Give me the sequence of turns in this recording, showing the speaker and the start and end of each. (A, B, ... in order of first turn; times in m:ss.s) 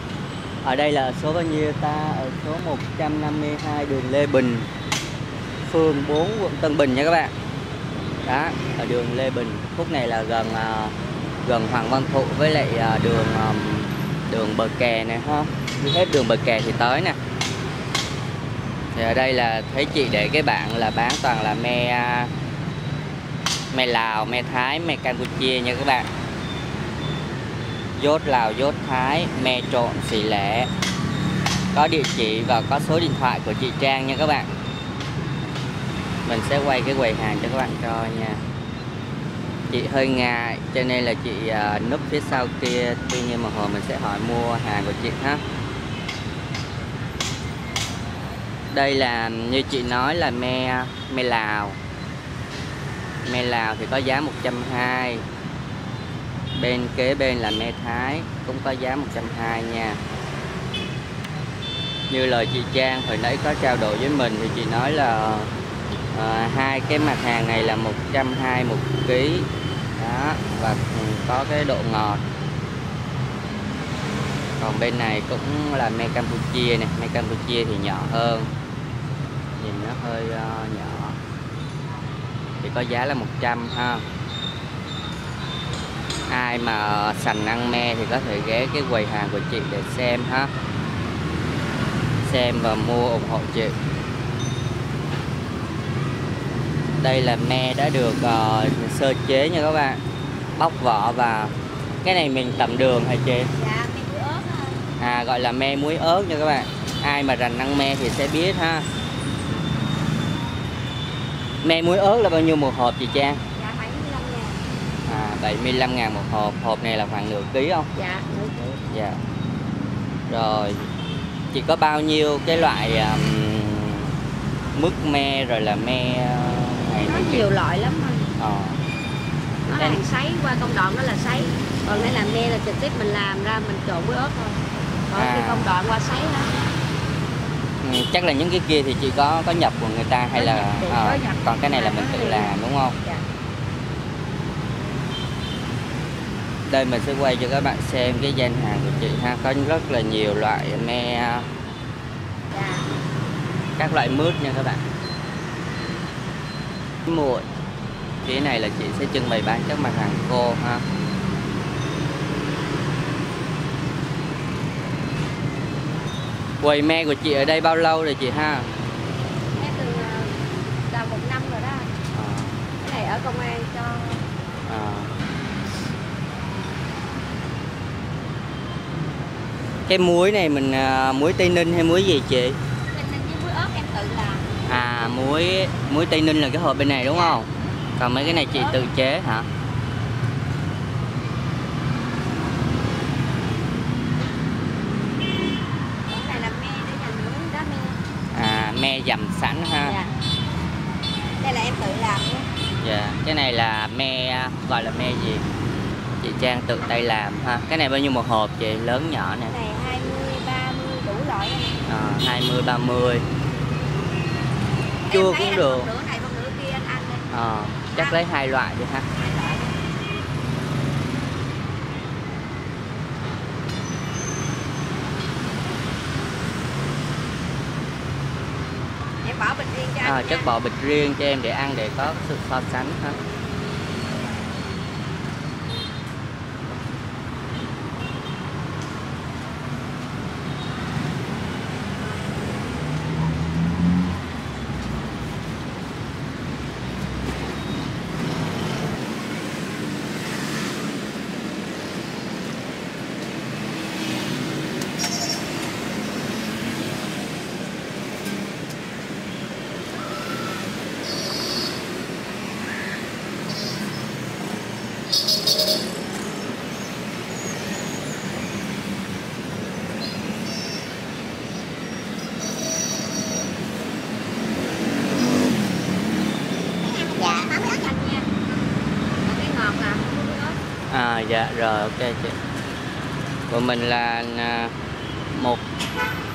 0:00.6-0:04.7 A
0:05.6-0:07.3 A
0:08.3-0:10.9 A
0:11.4-0:17.2 A
0:19.0-0:22.3 A
0:23.7-0:26.1 A
0:28.0-0:30.7 A
0:31.7-0:34.5 A
0:36.2-0:38.4 A
0:39.7-0:45.4 A
0:48.7-0:51.8 A
0:53.2-0:55.2 A
0:56.6-1:00.0 A
1:02.1-1:05.5 A
1:06.1-1:12.2 A
1:14.6-1:18.5 A
1:19.6-1:21.2 A
1:22.6-1:24.0 A
1:26.3-1:30.5 A
1:32.2-1:33.8 A
1:37.0-1:40.0 A
1:40.6-1:41.5 A
1:42.0-1:43.5 A
1:43.5-1:44.8 B
1:45.0-1:48.8 A
1:51.6-1:53.4 A
1:53.6-1:54.6 B
1:55.1-1:57.9 A
1:58.0-1:58.8 B
1:58.9-1:59.2 A
2:00.3-2:00.9 A
2:01.5-2:04.1 A
2:04.8-2:07.5 A
2:07.1-2:08.3 B
2:08.4-2:08.8 A
2:09.7-2:16.5 B
2:15.2-2:15.7 A
2:17.8-2:23.0 A
2:20.3-2:23.2 B
2:26.7-2:31.4 A
2:32.5-2:32.9 B
2:33.8-2:34.8 A
2:37.1-2:37.5 A
2:38.2-2:40.8 A
2:46.6-2:48.7 A
2:49.6-2:50.3 B
2:50.9-2:51.9 B
2:52.1-2:52.6 A
2:52.8-2:54.3 B
2:54.7-2:55.1 A
2:59.9-3:02.6 A
3:02.9-3:04.4 B
3:04.7-3:09.5 A
3:07.1-3:07.4 B
3:08.2-3:08.8 B
3:16.1-3:18.0 B
3:18.3-3:20.0 A
3:19.8-3:20.1 B
3:21.4-3:22.5 B
3:22.8-3:25.4 A
3:26.2-3:29.6 A
3:29.5-3:31.8 B
3:31.9-3:33.2 A
3:35.1-3:37.2 B
3:35.1-3:35.9 A
3:37.3-3:39.1 A
3:39.2-3:39.7 B
3:49.2-3:50.5 B
3:50.0-3:53.2 A
4:36.8-4:38.3 B
4:39.2-4:40.6 B
4:40.9-4:42.4 A
4:43.5-4:44.7 A
4:45.3-4:45.6 A